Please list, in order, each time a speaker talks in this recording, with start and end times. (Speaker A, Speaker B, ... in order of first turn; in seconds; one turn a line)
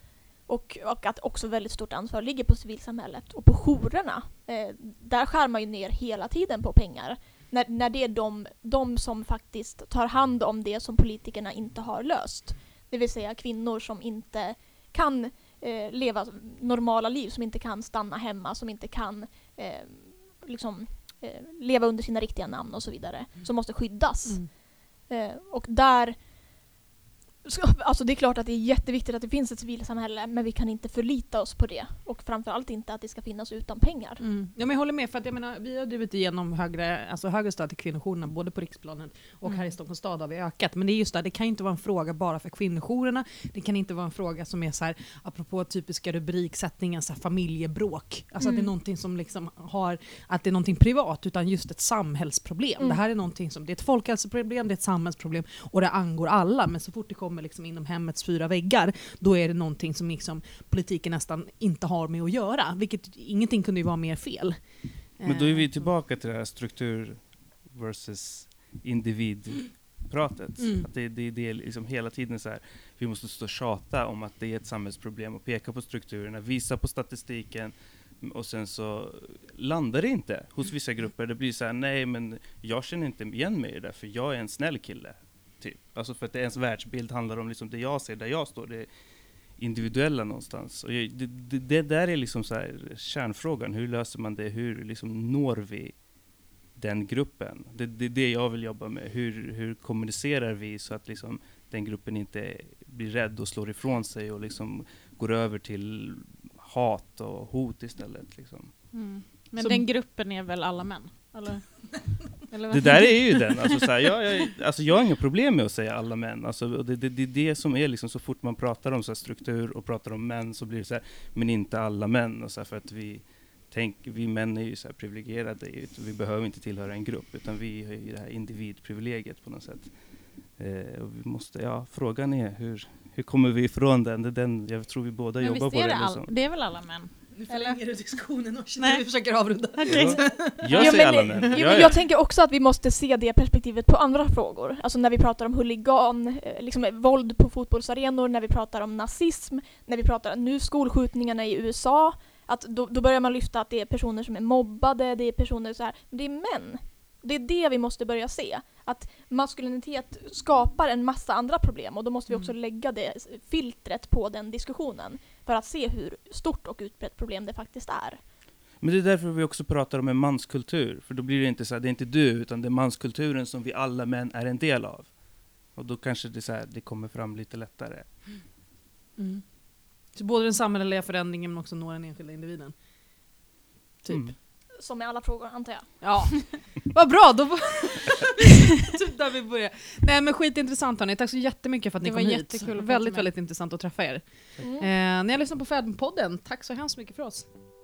Speaker A: 0.5-26.2
Speaker B: 24.3-24.5
Speaker A: 27.4-34.2
Speaker B: 34.2-65.9
Speaker C: 39.5-39.7
Speaker A: 48.4-48.7
Speaker D: 65.2-88.9
Speaker B: 70.6-70.9
Speaker D: 89.6-96.0
Speaker D: 96.8-108.7
Speaker C: 108.9-113.6
Speaker B: 109.6-109.9
Speaker D: 112.7-130.0
Speaker D: 130.5-136.3
Speaker C: 135.4-137.8
Speaker B: 137.4-142.0
Speaker C: 138.8-139.0
Speaker C: 139.8-140.3
Speaker D: 139.9-142.0
Speaker A: 140.7-168.2
Speaker D: 168.8-175.2
Speaker D: 175.7-178.1
Speaker B: 179.2-179.5
Speaker B: 180.1-182.8
Speaker B: 184.0-184.3
Speaker D: 184.1-184.3
Speaker A: 184.8-186.2
Speaker B: 186.0-197.5
Speaker C: 192.0-193.3
Speaker A: 194.6-194.9